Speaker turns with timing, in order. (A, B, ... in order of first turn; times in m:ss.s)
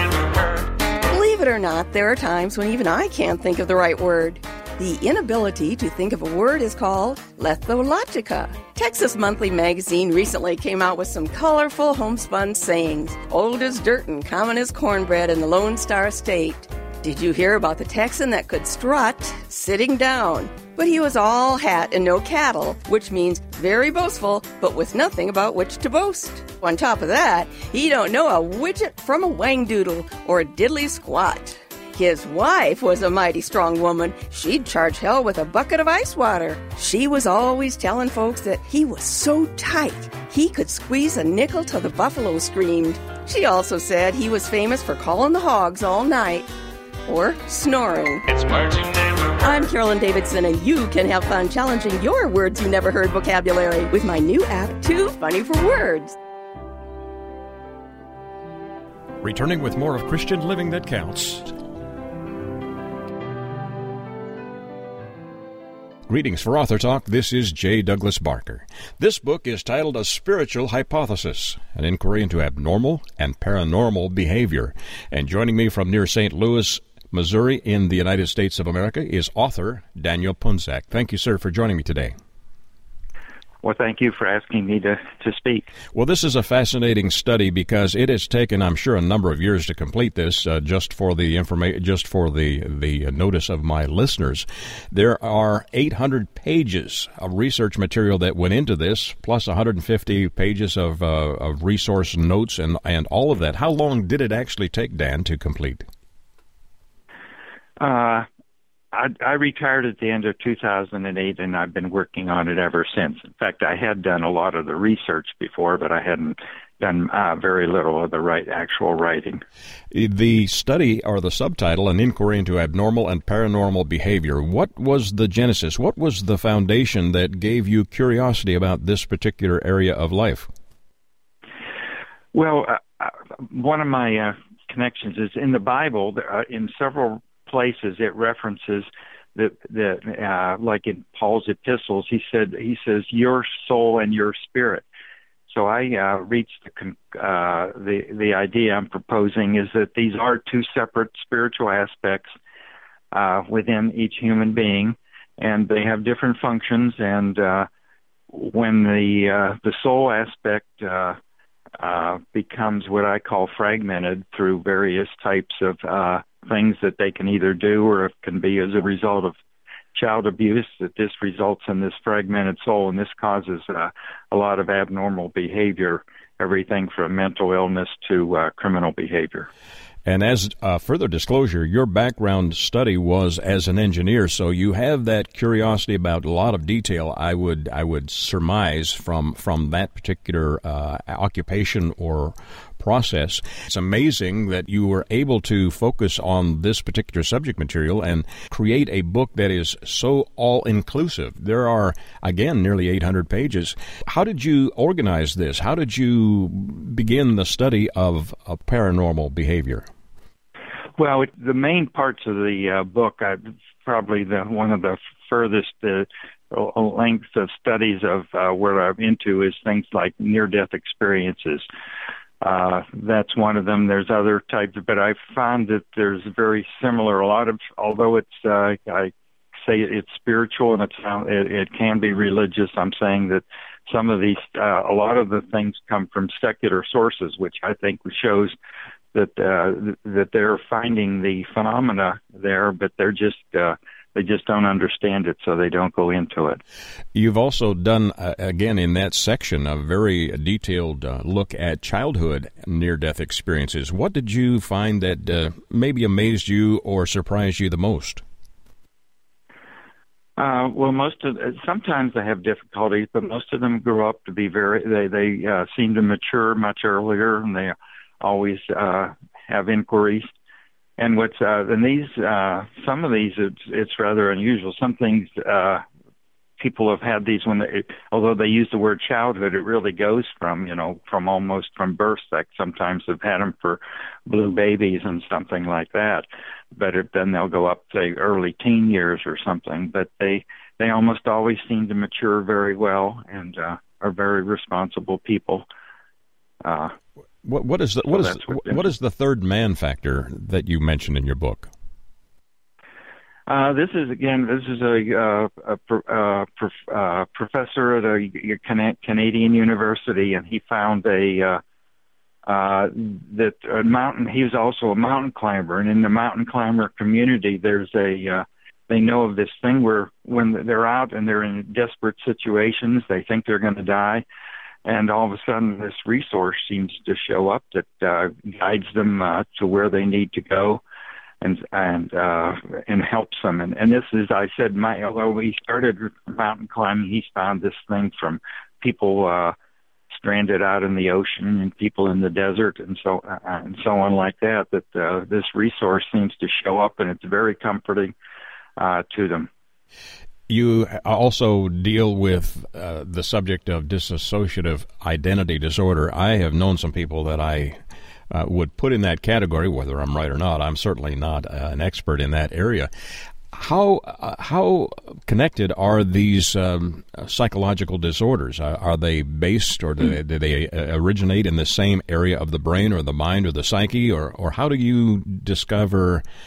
0:01.1-0:46.5 A
0:47.1-0:56.2 A
0:59.2-1:01.6 B
1:06.1-1:22.1 B
1:23.6-1:25.7 C
1:25.9-1:45.8 B
1:47.8-1:48.3 C
1:48.9-1:59.4 C
1:59.9-2:10.5 B
2:12.3-2:24.8 C
2:25.5-2:32.3 C
2:33.1-2:37.7 C
2:38.3-2:41.2 C
2:41.8-2:49.4 C
2:49.9-2:59.5 C
3:00.0-3:29.8 B
3:31.0-3:41.7 C
3:42.4-3:58.6 C
3:59.1-4:06.6 C
4:07.1-4:18.2 B
4:20.4-4:30.3 C
4:31.0-4:35.8 C
4:36.6-4:55.6 C
4:56.6-4:56.9 C
4:57.4-5:01.7 B
4:58.2-4:58.8 C
5:03.5-5:11.6 C
5:12.4-5:24.2 C
5:24.8-5:30.8 C
5:31.4-5:39.6 C
5:40.1-5:48.1 C
5:48.8-5:49.5 C
5:50.5-5:57.8 B
5:58.3-6:02.9 B
6:03.5-6:16.2 B